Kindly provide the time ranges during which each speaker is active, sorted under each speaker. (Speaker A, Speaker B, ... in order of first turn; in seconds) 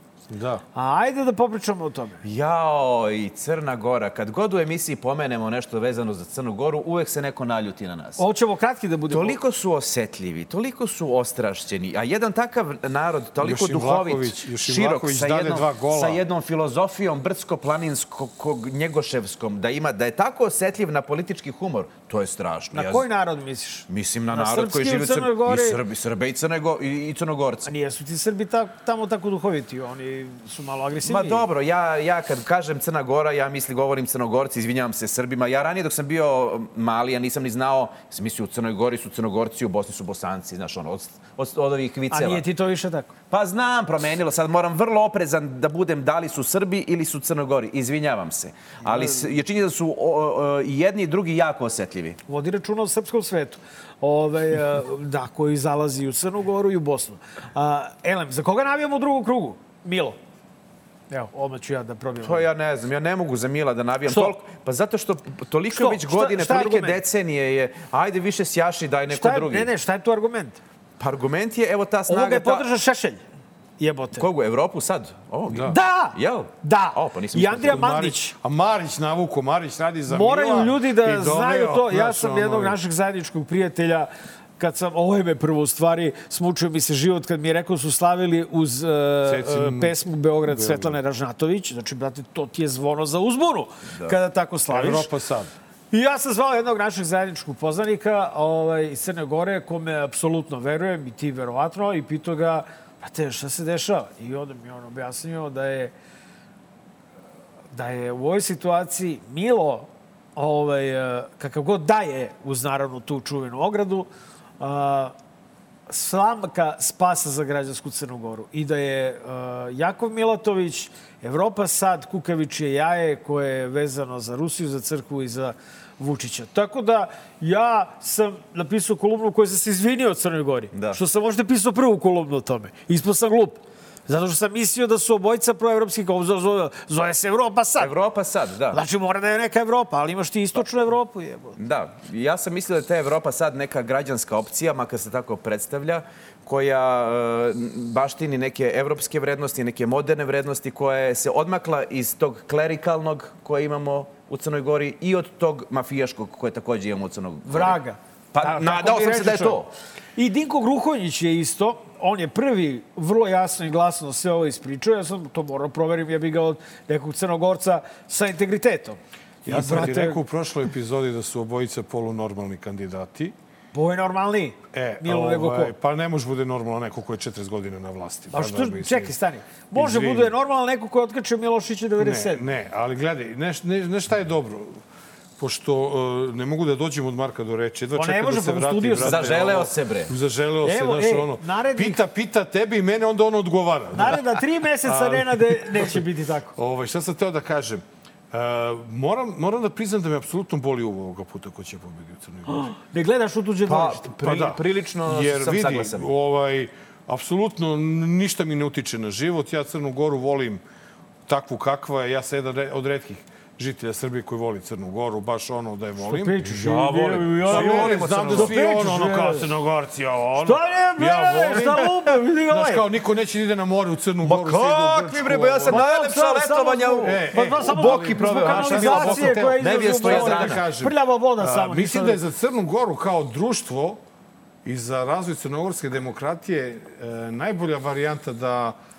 Speaker A: 0.3-0.6, 13.4-16.2, 75.5-75.7, 77.7-82.8, 89.2-89.9, 90.5-91.0, 94.7-95.5, 169.4-173.3, 174.7-179.1, 179.7-180.3, 182.0-184.8, 185.4-194.2, 194.8-196.0, 196.5-202.7, 204.1-210.6, 211.2-225.8, 227.0-234.0, 234.6-238.8
Speaker B: 0.7-2.2, 8.2-9.4, 22.7-25.8, 27.6-31.4, 42.1-43.1, 48.8-49.4, 52.3-60.2, 61.1-62.5, 64.1-64.4, 65.7-67.0, 69.1-70.6, 72.1-73.2, 73.8-74.3, 75.7-78.3, 80.1-95.1, 95.9-105.9, 107.7-114.1, 114.6-115.1, 115.9-138.0, 138.7-141.6, 157.5-159.7, 160.2-170.2, 173.7-175.7, 178.3-182.4, 187.9-189.6, 190.6-192.0, 193.9-196.5, 202.5-204.2, 216.0-219.5, 220.4-222.9, 225.7-232.2
Speaker C: 2.2-8.2, 9.1-23.0, 23.9-27.7, 31.0-42.4, 43.3-52.2, 62.2-69.7, 71.0-72.7, 74.1-77.9, 130.7-131.0, 137.8-138.8, 141.6-157.8, 158.3-159.7, 188.9-190.1, 203.7-206.1, 217.4-218.6, 224.2-230.7